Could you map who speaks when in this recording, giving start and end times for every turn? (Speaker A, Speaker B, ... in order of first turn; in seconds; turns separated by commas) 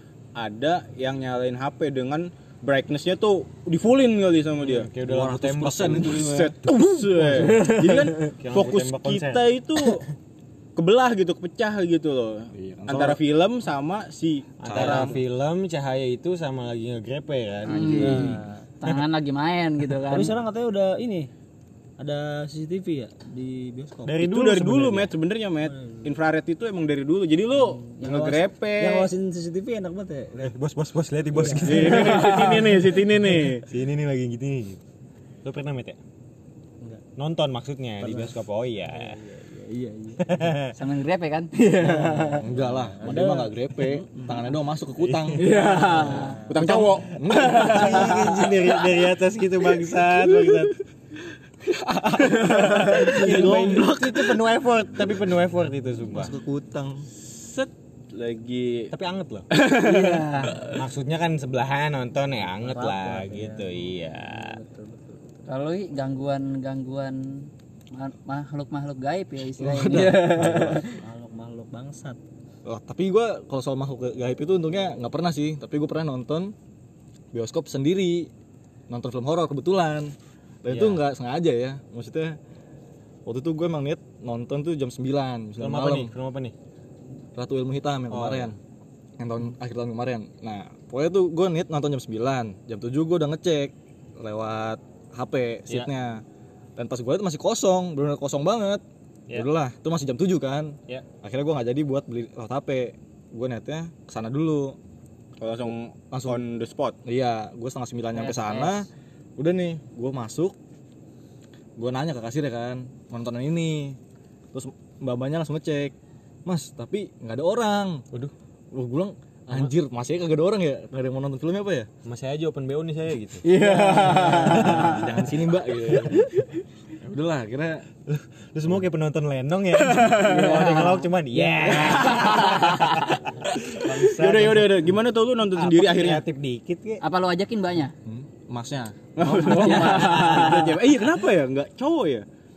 Speaker A: 0.4-4.9, Speaker B: 4.6-7.8, Speaker C: 5.0-6.6, Speaker A: 5.9-10.1, Speaker D: 7.7-7.9, Speaker B: 8.4-9.4, Speaker A: 10.8-15.2, Speaker C: 12.5-13.2, Speaker B: 14.6-19.0, Speaker C: 14.7-15.2, Speaker D: 17.7-20.4, Speaker C: 17.8-18.3, Speaker A: 17.9-18.3, Speaker E: 18.0-18.6, Speaker E: 20.1-21.3, Speaker E: 22.0-24.2, Speaker B: 24.1-25.1, Speaker A: 24.2-29.1, Speaker E: 27.7-30.5, Speaker B: 30.4-34.8, Speaker E: 31.4-31.6, Speaker A: 31.5-33.7, Speaker B: 35.4-36.0, Speaker B: 37.2-39.2, Speaker E: 38.0-38.3, Speaker E: 38.9-40.5, Speaker B: 40.2-40.8, Speaker D: 40.8-42.3, Speaker E: 41.8-44.6, Speaker C: 42.4-45.5, Speaker B: 45.0-46.0, Speaker D: 45.4-46.4, Speaker A: 45.5-48.3, Speaker E: 45.8-46.6, Speaker B: 46.6-50.8, Speaker C: 46.7-48.2, Speaker C: 51.6-54.3, Speaker A: 52.3-54.0, Speaker B: 52.7-56.4, Speaker E: 53.0-53.5, Speaker C: 56.1-57.1, Speaker A: 57.2-58.9, Speaker B: 58.9-59.5, Speaker A: 59.5-60.3, Speaker D: 59.7-60.7, Speaker B: 60.6-64.6, Speaker E: 62.6-65.4, Speaker D: 65.5-70.9, Speaker C: 69.6-70.8, Speaker E: 70.0-72.2, Speaker B: 70.4-70.7, Speaker C: 72.7-76.5, Speaker C: 77.3-78.3, Speaker C: 78.9-82.4, Speaker B: 80.7-81.0, Speaker C: 83.2-86.1, Speaker B: 85.6-86.5, Speaker C: 87.3-88.6, Speaker B: 88.1-88.5, Speaker C: 89.2-96.2, Speaker C: 96.8-104.8, Speaker A: 105.4-107.0, Speaker C: 106.1-106.4, Speaker C: 107.0-110.6, Speaker D: 108.1-108.8, Speaker C: 111.8-114.0, Speaker C: 114.5-115.9, Speaker C: 116.5-118.1, Speaker C: 118.7-121.9, Speaker B: 122.0-123.5, Speaker C: 123.5-126.3, Speaker A: 123.5-124.7, Speaker D: 123.6-124.8, Speaker B: 124.1-125.2, Speaker C: 127.0-127.9, Speaker B: 128.1-134.8, Speaker D: 130.2-131.1, Speaker A: 131.7-132.6, Speaker C: 131.7-132.0, Speaker D: 132.2-132.8, Speaker A: 133.7-136.2, Speaker B: 135.6-137.0, Speaker D: 137.0-137.9, Speaker C: 138.1-140.6, Speaker A: 139.2-142.3, Speaker D: 139.4-140.8